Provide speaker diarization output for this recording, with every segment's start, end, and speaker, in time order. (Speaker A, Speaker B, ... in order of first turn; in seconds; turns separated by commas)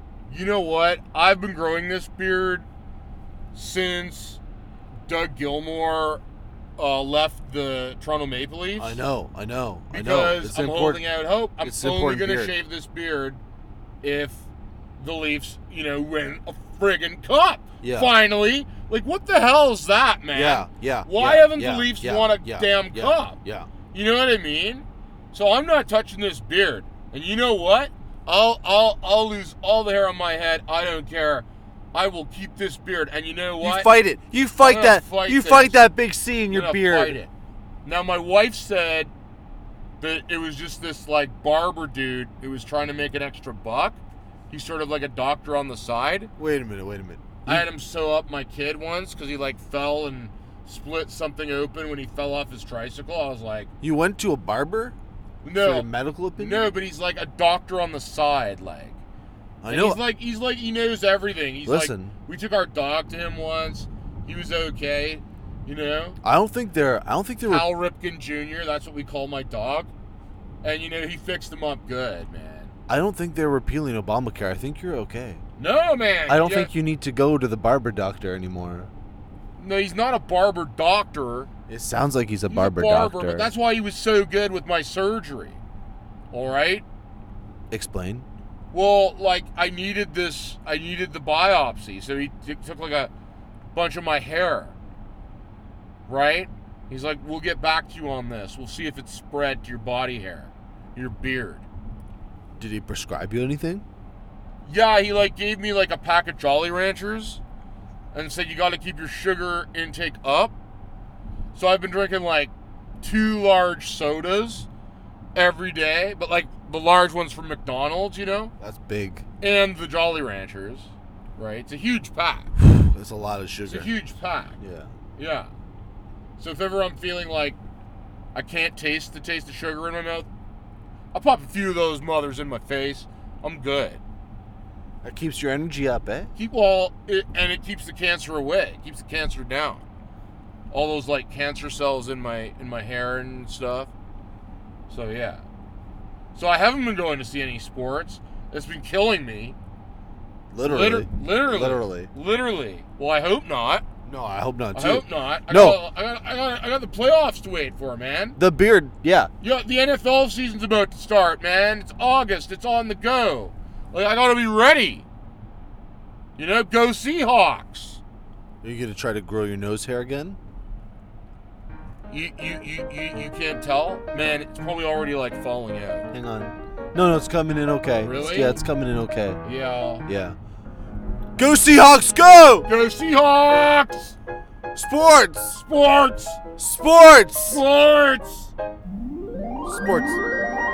Speaker A: 0.3-2.6, Speaker A: 3.5-4.4, Speaker A: 5.0-6.2, Speaker A: 6.8-9.0, Speaker B: 8.8-11.0, Speaker A: 9.9-13.4, Speaker B: 11.6-12.5, Speaker A: 14.0-23.4, Speaker B: 17.8-18.1, Speaker B: 20.3-23.7, Speaker A: 23.9-34.0, Speaker B: 33.6-37.2, Speaker A: 34.5-35.8, Speaker A: 36.5-37.3, Speaker A: 37.8-39.1, Speaker A: 40.0-44.0, Speaker A: 44.5-46.3, Speaker B: 46.4-47.7, Speaker A: 47.4-53.7, Speaker B: 53.8-54.9, Speaker A: 55.4-59.0, Speaker B: 55.5-56.7, Speaker B: 59.6-60.0, Speaker A: 59.7-66.2, Speaker B: 61.6-62.1, Speaker B: 66.2-67.7, Speaker A: 67.4-69.9, Speaker A: 70.6-72.7, Speaker B: 72.9-75.4, Speaker A: 75.6-76.7, Speaker B: 76.3-78.9, Speaker A: 79.5-81.5, Speaker B: 81.7-83.5, Speaker A: 82.5-85.6, Speaker A: 86.3-86.8, Speaker B: 87.7-88.2, Speaker A: 88.7-93.1, Speaker A: 93.7-94.8, Speaker A: 96.1-101.6, Speaker B: 102.6-103.8, Speaker A: 104.6-107.4, Speaker A: 108.1-110.5, Speaker A: 111.5-114.7, Speaker A: 115.3-118.5, Speaker B: 118.6-119.2, Speaker A: 119.4-122.5, Speaker B: 122.6-124.0, Speaker A: 123.7-124.6, Speaker B: 124.6-124.9, Speaker A: 125.2-125.5, Speaker A: 126.4-127.6, Speaker A: 128.3-130.3, Speaker A: 131.1-134.0, Speaker B: 135.0-136.3, Speaker A: 136.3-139.8, Speaker A: 140.7-143.9, Speaker A: 144.9-145.4, Speaker A: 146.3-149.6, Speaker B: 150.5-152.1, Speaker A: 150.6-153.8, Speaker B: 154.0-155.8, Speaker A: 154.7-158.4, Speaker B: 158.4-159.3, Speaker A: 159.4-165.1, Speaker A: 166.3-168.0, Speaker B: 168.6-170.4, Speaker A: 172.1-176.1, Speaker B: 176.1-179.4, Speaker A: 178.0-178.6, Speaker A: 179.4-180.0, Speaker B: 180.0-180.4, Speaker B: 181.4-182.7, Speaker A: 182.6-184.2, Speaker B: 184.7-185.6, Speaker A: 185.5-186.4, Speaker B: 186.6-187.6, Speaker A: 187.5-188.5, Speaker B: 189.6-190.2